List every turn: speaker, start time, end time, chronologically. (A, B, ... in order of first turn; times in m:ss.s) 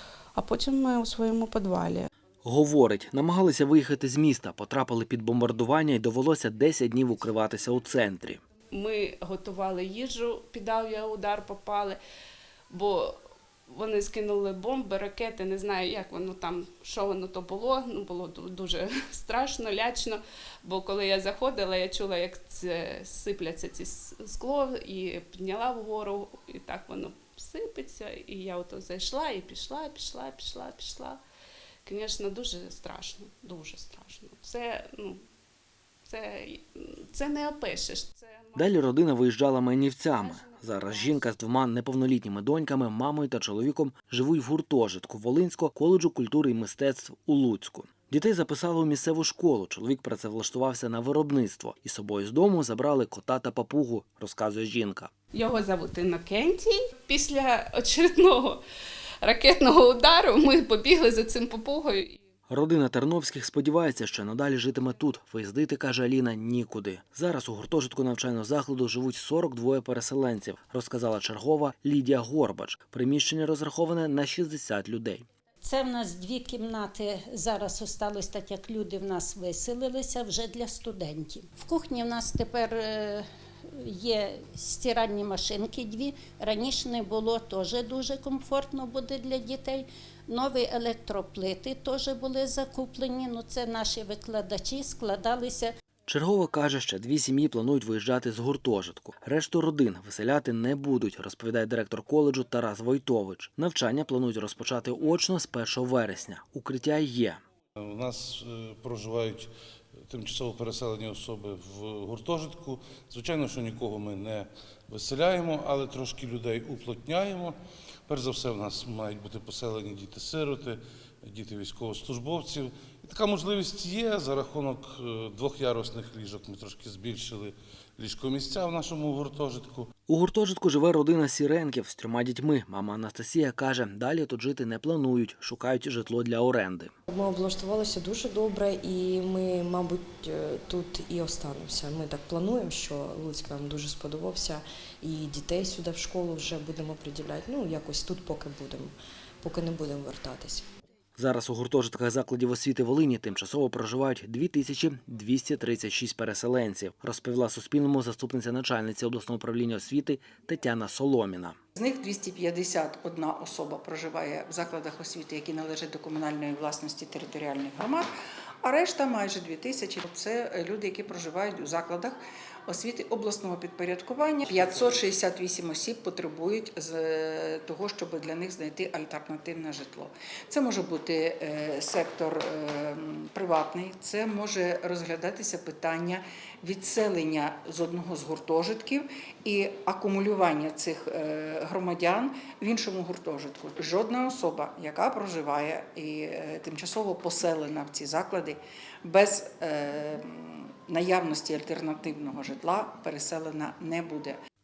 0:00.4-0:02.1 A
0:02.4-0:08.4 B
0:08.7-0:12.0 A
0:12.7-0:13.2 A
0:13.7-0:31.2 A
0:31.8-0:35.2 A
0:36.1-0:38.7 A
0:38.6-0:55.1 B
0:40.2-0:41.2 A
0:55.3-0:58.6 A
0:59.2-1:02.2 A
1:02.5-1:15.2 B
1:15.6-1:35.7 C
1:36.1-1:47.4 B
1:47.8-1:49.5 D
1:50.1-1:57.6 D
1:58.1-2:09.9 D
2:10.1-2:16.9 B
2:17.1-2:30.6 E
2:31.2-2:41.6 B
2:41.8-2:48.1 F
2:48.6-3:24.4 F
2:54.5-2:54.9 E